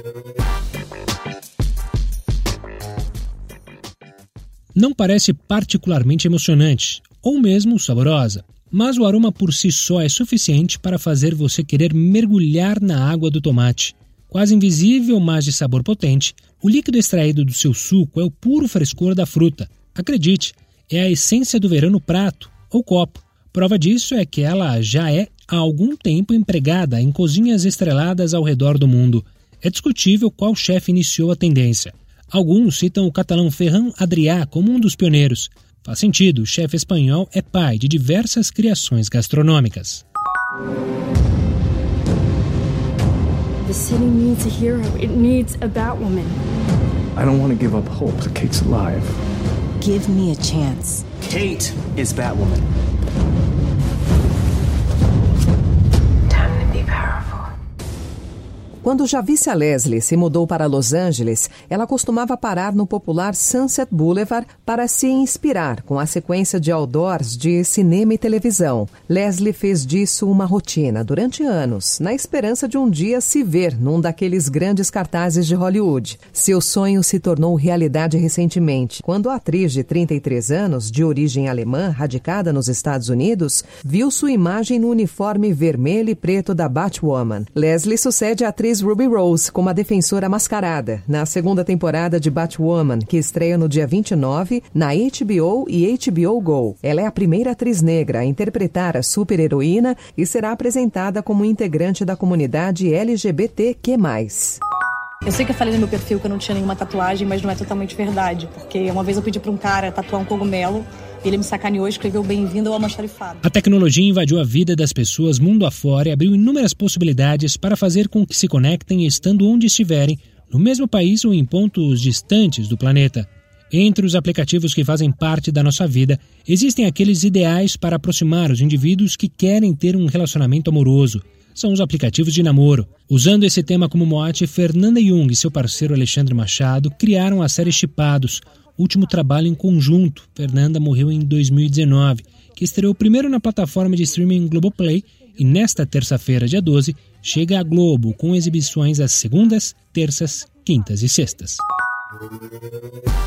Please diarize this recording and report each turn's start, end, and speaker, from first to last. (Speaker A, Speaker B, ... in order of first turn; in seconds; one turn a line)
Speaker A: 4.7-40.0
Speaker B: 43.6-46.4
Speaker C: 47.1-49.2
Speaker D: 49.8-51.0
Speaker C: 52.1-52.5
Speaker D: 56.3-57.5
Speaker E: 58.8-104.6
Speaker F: 105.2-113.4
Speaker A: 113.4-151.6